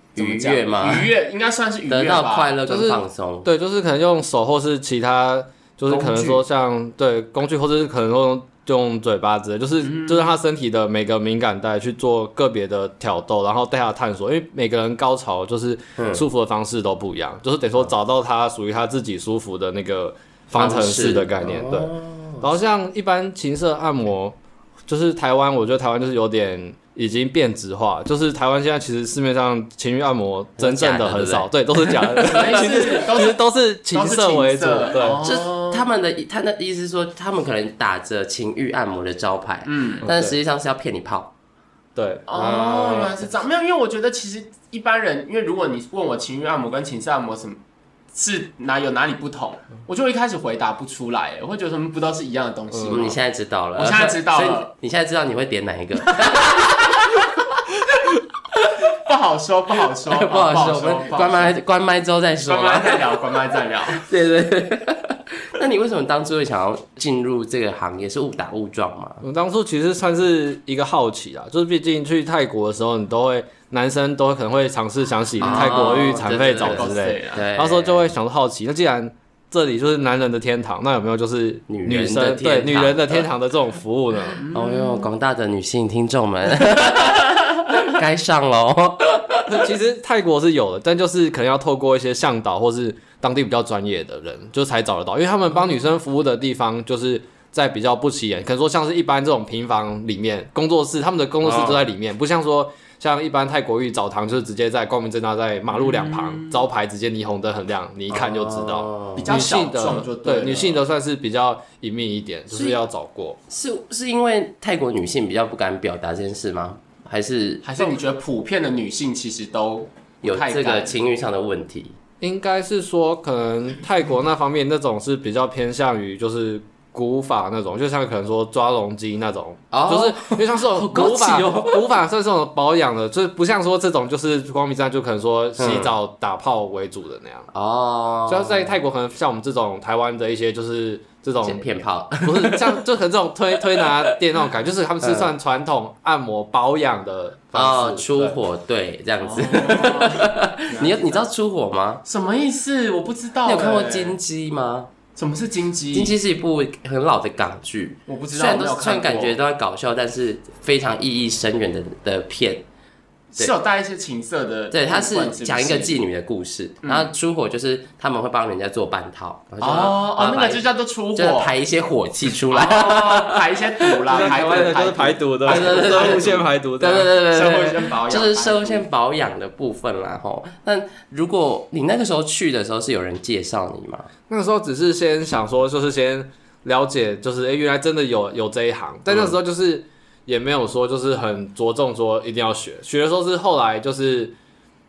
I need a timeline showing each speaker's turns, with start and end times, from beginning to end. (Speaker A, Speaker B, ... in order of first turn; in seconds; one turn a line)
Speaker A: 0.2-2.6
Speaker B: 0.2-1.1
Speaker B: 1.9-3.5
Speaker C: 2.7-24.4
Speaker A: 5.9-6.4
Speaker A: 9.9-10.3
Speaker B: 16.0-16.2
Speaker B: 20.5-22.5
Speaker C: 24.9-35.2
Speaker B: 30.6-32.6
Speaker A: 32.3-35.9
Speaker B: 35.2-41.3
Speaker A: 39.6-40.0
Speaker C: 40.0-40.4
Speaker C: 42.0-42.3
Speaker A: 42.3-47.6
Speaker B: 42.3-43.2
Speaker A: 48.1-53.2
Speaker C: 52.7-53.0
Speaker B: 52.9-57.2
Speaker A: 53.8-54.7
Speaker A: 56.2-56.8
Speaker A: 58.9-61.6
Speaker B: 60.1-63.1
Speaker A: 62.5-64.0
Speaker B: 63.9-69.2
Speaker C: 69.2-84.4
Speaker B: 75.4-78.1
Speaker A: 75.4-77.5
Speaker B: 81.7-83.3
Speaker A: 84.4-85.1
Speaker B: 84.5-89.6
Speaker C: 89.5-113.4
Speaker B: 101.4-101.8
Speaker A: 105.7-106.6
Speaker B: 108.1-109.3
Speaker A: 109.2-110.8
Speaker B: 112.5-112.8
Speaker B: 113.5-117.9
Speaker A: 117.6-121.0
Speaker B: 120.2-122.0
Speaker C: 122.2-137.5
Speaker B: 129.7-131.9
Speaker B: 135.6-135.9
Speaker B: 137.5-138.7
Speaker C: 138.3-141.6
Speaker B: 141.4-142.8
Speaker C: 142.2-148.4
Speaker B: 143.7-144.2
Speaker B: 145.0-145.3
Speaker B: 147.5-152.0
Speaker A: 149.2-151.2
Speaker A: 152.1-154.2
Speaker B: 153.5-154.9
Speaker A: 155.2-156.1
Speaker B: 155.9-162.6
Speaker A: 158.1-159.4
Speaker A: 163.4-165.9
Speaker B: 164.7-174.7
Speaker A: 166.8-167.1
Speaker A: 169.6-171.5
Speaker A: 172.5-176.4
Speaker C: 174.1-177.1
Speaker B: 175.4-184.1
Speaker A: 177.3-178.9
Speaker C: 184.3-194.3
Speaker B: 189.1-189.4